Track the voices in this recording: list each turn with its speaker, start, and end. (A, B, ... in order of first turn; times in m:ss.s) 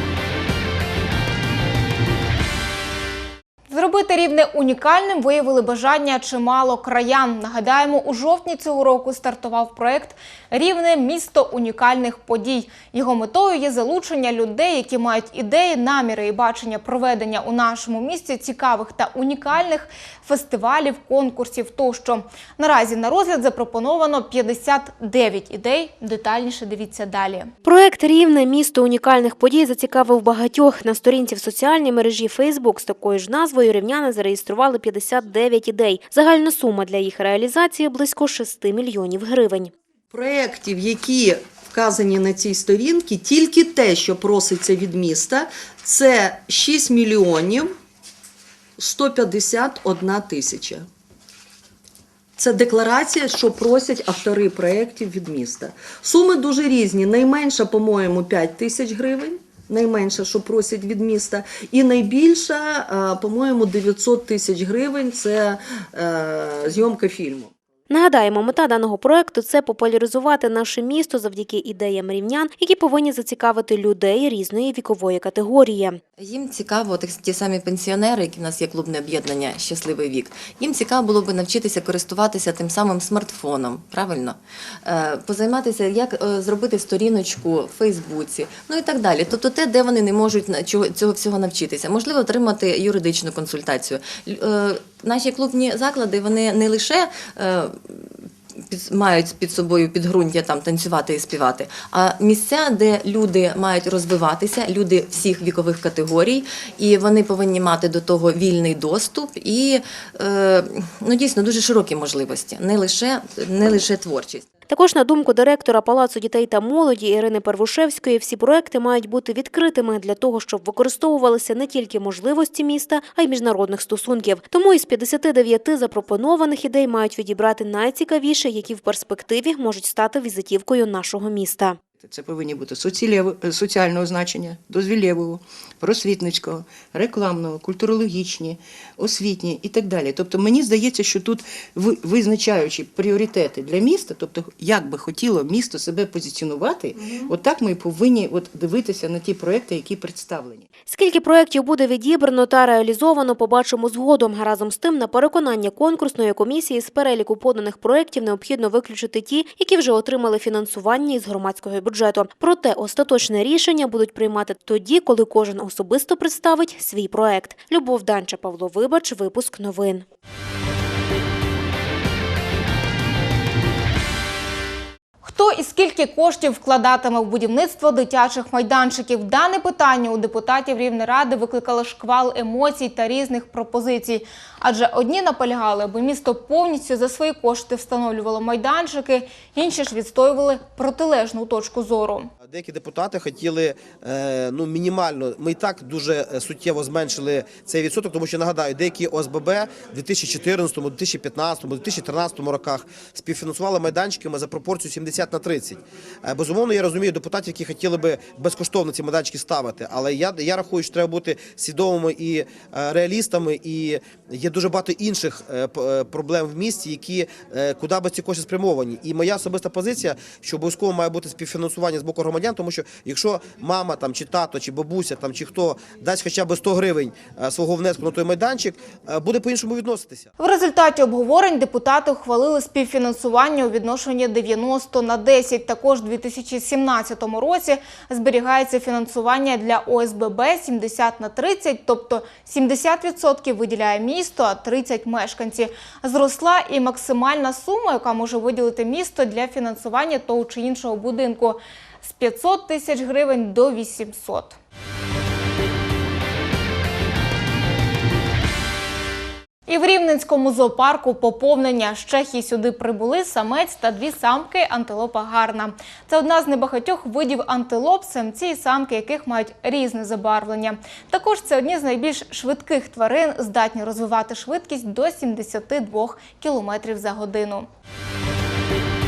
0:03.7-0:27.5 A
0:27.6-0:39.7 B
0:40.1-0:47.7 C
0:48.8-0:50.8 C
0:52.4-1:07.5 C
1:07.9-1:16.0 B
1:16.2-1:54.4 D
1:54.7-2:11.8 B
2:12.0-2:30.7 E
2:30.9-2:50.0 B
2:55.2-3:12.3 A
3:12.5-3:50.3 F
3:50.4-4:14.6 A
4:19.7-4:37.7 A